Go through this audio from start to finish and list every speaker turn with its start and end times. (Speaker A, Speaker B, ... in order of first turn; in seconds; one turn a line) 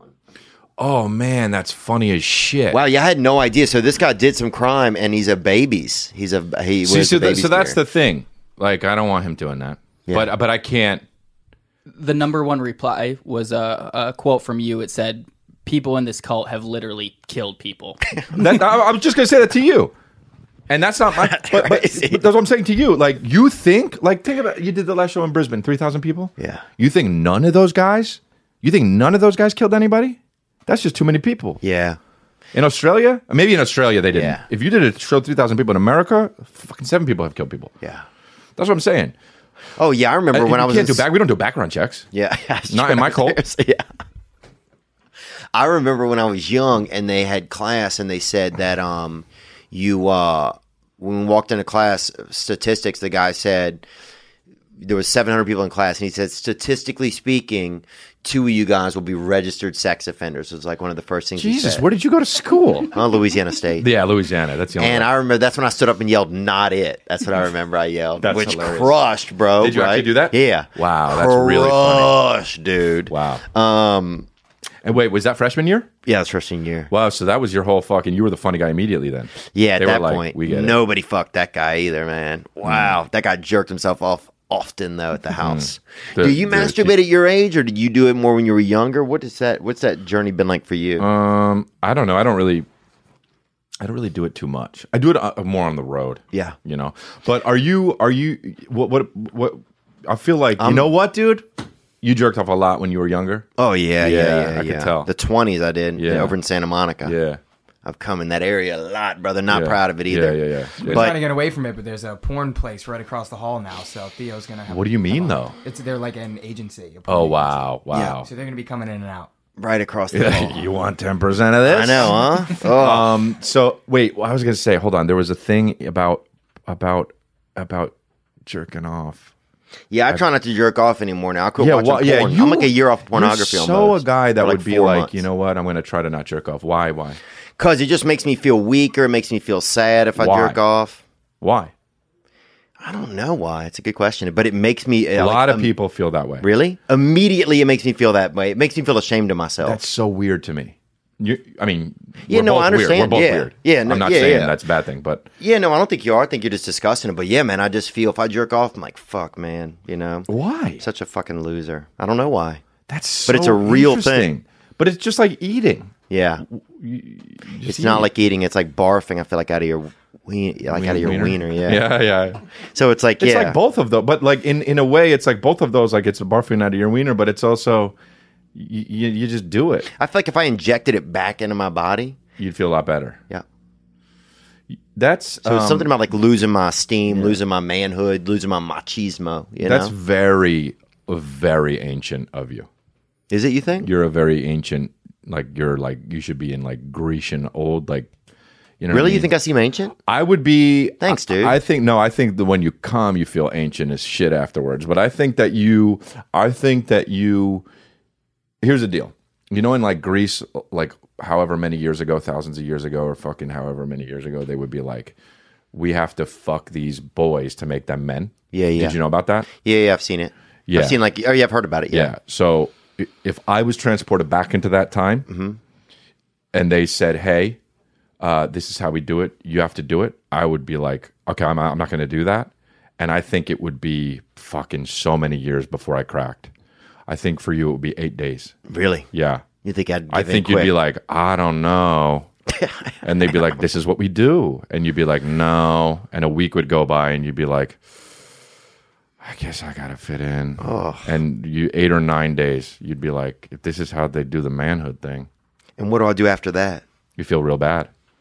Speaker A: 0.8-2.8
Speaker B: 2.7-7.8
Speaker A: 6.8-11.0
Speaker B: 10.1-10.3
Speaker C: 12.0-18.0
Speaker A: 18.3-19.9
Speaker A: 20.7-31.6
Speaker B: 21.2-22.2
Speaker B: 26.4-26.6
Speaker B: 31.6-32.0
Speaker A: 32.5-37.7
Speaker B: 34.1-34.4
Speaker A: 38.6-39.1
Speaker B: 39.8-41.0
Speaker A: 40.3-42.1
Speaker B: 42.1-43.8
Speaker A: 42.7-43.4
Speaker B: 45.5-53.8
Speaker B: 54.8-61.9
Speaker A: 61.4-62.9
Speaker B: 62.9-63.9
Speaker A: 63.8-65.1
Speaker B: 64.8-74.3
Speaker A: 68.2-69.0
Speaker A: 69.6-72.2
Speaker A: 73.1-73.4
Speaker A: 74.8-75.9
Speaker B: 76.0-76.9
Speaker A: 76.9-80.8
Speaker B: 79.5-91.1
Speaker A: 82.6-83.0
Speaker A: 85.4-87.0
Speaker A: 91.0-92.7
Speaker A: 93.8-101.5
Speaker B: 100.6-100.9
Speaker A: 102.0-103.5
Speaker B: 103.6-107.1
Speaker A: 104.0-105.1
Speaker A: 106.0-106.3
Speaker A: 107.0-107.4
Speaker B: 107.8-111.2
Speaker A: 109.5-111.2
Speaker D: 110.8-117.7
Speaker A: 114.7-115.6
Speaker A: 117.1-118.3
Speaker B: 117.9-118.2
Speaker D: 118.2-119.3
Speaker B: 119.6-120.7
Speaker A: 120.1-127.9
Speaker B: 121.7-123.1
Speaker A: 128.5-129.3
Speaker B: 129.9-135.2
Speaker A: 131.6-137.2
Speaker B: 137.6-141.0
Speaker A: 140.2-140.6
Speaker A: 141.4-141.7
Speaker B: 142.8-145.7
Speaker A: 145.2-146.5
Speaker B: 146.4-149.8
Speaker A: 149.6-155.3
Speaker B: 152.3-154.6
Speaker B: 155.4-160.3
Speaker A: 160.3-160.8
Speaker B: 160.8-162.6
Speaker A: 162.9-165.9
Speaker B: 163.3-164.3
Speaker B: 166.1-166.4
Speaker A: 166.5-168.1
Speaker B: 167.7-171.9
Speaker A: 170.7-172.4
Speaker B: 172.7-173.6
Speaker A: 173.2-177.9
Speaker A: 178.6-179.9
Speaker B: 179.9-182.2
Speaker A: 182.4-183.2
Speaker A: 184.7-185.9
Speaker B: 185.4-189.9
Speaker A: 187.1-187.4
Speaker A: 189.6-192.7
Speaker B: 193.3-193.9
Speaker A: 193.8-198.1
Speaker A: 198.8-199.3
Speaker B: 198.9-199.9
Speaker A: 200.1-207.7
Speaker B: 201.0-201.6
Speaker A: 208.6-215.2
Speaker A: 215.7-219.5
Speaker B: 218.5-219.0
Speaker B: 219.5-222.1
Speaker A: 220.7-221.0
Speaker A: 221.9-225.3
Speaker B: 225.3-225.6
Speaker A: 226.5-227.6
Speaker A: 228.2-236.5
Speaker A: 237.1-238.5
Speaker B: 238.7-239.1
Speaker A: 239.1-239.4
Speaker B: 239.6-240.7
Speaker A: 240.1-242.3
Speaker B: 242.5-243.6
Speaker A: 243.0-247.8
Speaker A: 249.2-255.3
Speaker B: 250.6-251.1
Speaker B: 255.8-256.8
Speaker A: 257.2-257.9